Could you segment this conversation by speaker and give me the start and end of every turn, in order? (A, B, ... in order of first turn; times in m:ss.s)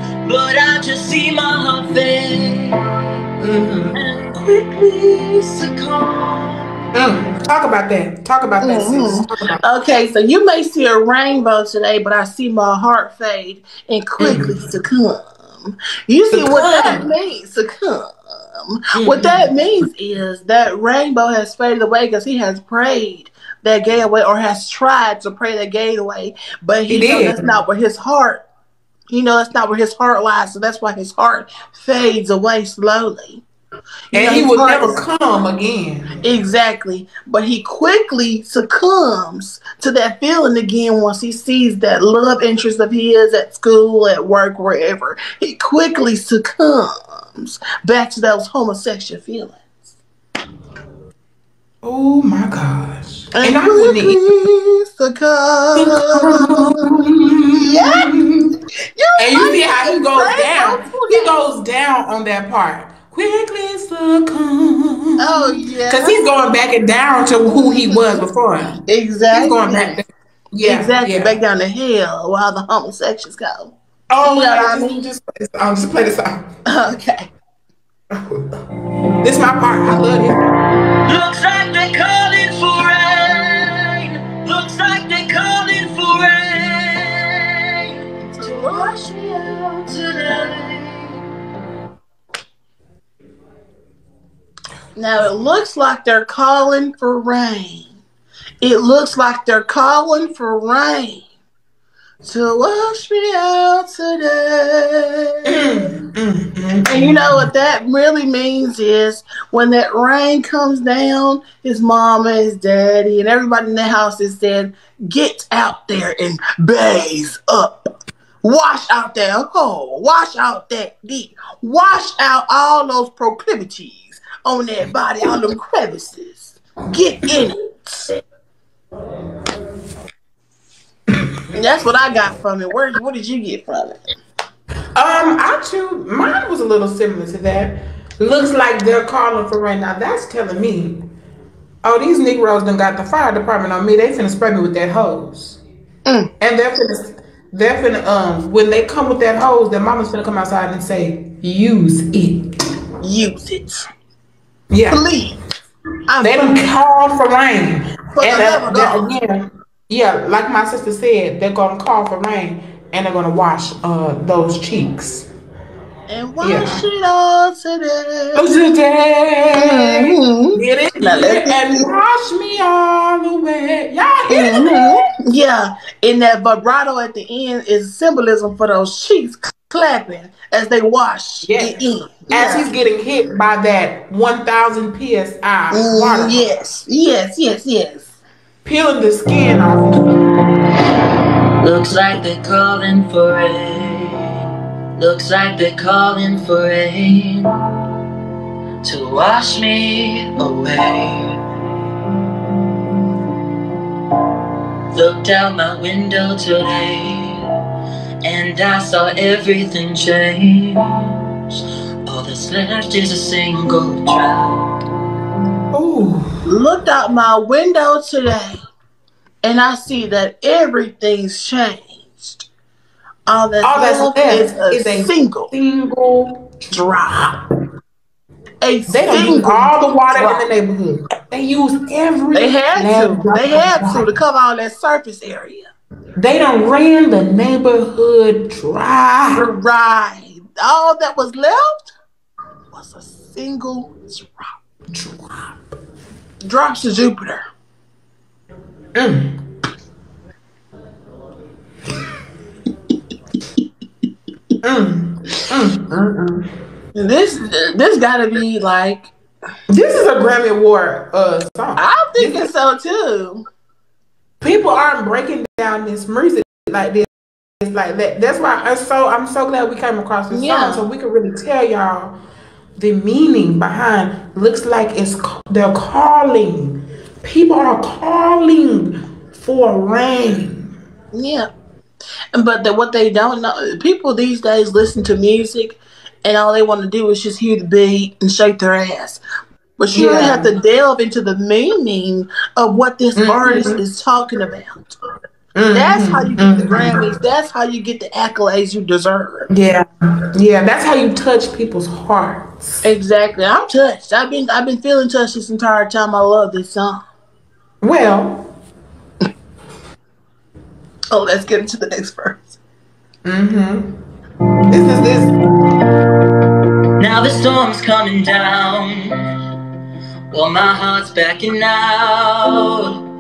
0:00.2-0:02.9 A
0:03.4-0:04.0 B
0:03.9-0:06.7 A
0:07.0-0:09.6 B
0:08.6-0:28.4 C
0:14.2-0:14.6 B
0:16.3-0:17.1 B
0:19.0-0:19.5 B
0:26.9-0:27.5 B
0:29.1-0:33.4 C
0:34.1-0:35.0 C
0:34.1-0:36.2 B
0:36.2-0:49.6 C
0:51.8-0:54.2 B
0:53.4-0:56.8 C
0:55.8-0:58.5 B
0:57.5-0:58.1 C
0:59.0-1:01.4 C
0:59.2-1:08.8 B
1:05.2-1:06.3 C
1:07.5-1:08.2 C
1:08.9-1:10.0 C
1:09.3-1:11.4 B
1:10.6-1:15.1 C
1:14.1-1:16.4 B
1:16.7-1:17.3 C
1:18.2-1:18.4 B
1:19.2-1:20.5 B
1:21.1-1:28.9 A
1:28.3-1:30.3 C
1:29.9-1:31.1 A
1:35.0-1:38.0 C
1:38.6-1:41.2 C
1:42.2-1:45.8 C
1:45.4-1:47.5 B
1:46.9-1:57.9 C
1:58.4-2:08.1 C
2:11.5-2:14.0 C
2:15.0-2:21.0 B
2:21.8-2:25.6 B
2:26.4-2:32.6 B
2:33.0-2:33.8 C
2:34.7-2:35.0 B
2:34.9-2:35.4 C
2:36.1-2:36.6 C
2:36.2-2:45.3 B
2:38.2-2:39.1 C
2:46.1-2:48.4 C
2:46.4-2:46.8 B
2:48.3-2:55.0 B
2:49.6-2:51.9 C
2:54.3-3:02.7 C
3:01.4-3:01.8 B
3:02.3-3:06.5 B
3:05.7-3:08.2 C
3:08.6-3:10.2 B
3:11.6-3:14.3 A
3:15.0-3:17.5 A
3:18.8-3:21.4 A
3:24.9-3:27.4 A
3:28.2-3:30.9 A
3:32.1-3:34.6 A
3:35.7-3:36.4 B
3:36.5-3:38.6 C
3:39.4-3:42.5 C
3:43.3-3:45.5 C
3:43.6-3:46.5 B
3:46.7-3:47.3 C
3:48.6-3:50.5 C
3:48.9-3:54.1 B
3:52.3-3:55.7 C
3:56.2-3:59.5 B
3:59.3-4:01.9 C
4:02.7-4:04.5 C
4:04.9-4:05.6 B
4:06.4-4:07.4 C
4:09.0-4:09.4 B
4:14.6-4:16.5 B
4:17.0-4:19.1 C
4:19.7-4:22.5 B
4:21.8-4:23.4 C
4:24.4-4:27.1 B
4:27.6-4:32.2 B
4:30.3-4:30.9 C
4:32.8-4:40.8 B
4:41.1-4:41.5 C
4:42.3-4:49.2 C
4:49.8-4:54.9 C
4:49.9-4:50.5 B
4:53.2-4:53.8 B
4:55.6-4:57.0 B
4:55.7-4:59.5 C
4:59.5-5:02.8 B
5:02.8-5:07.0 C
5:07.8-5:08.5 B
5:11.1-5:12.6 C
5:13.2-5:13.9 B
5:14.7-5:15.3 B
5:17.0-5:19.1 A
5:20.3-5:23.0 A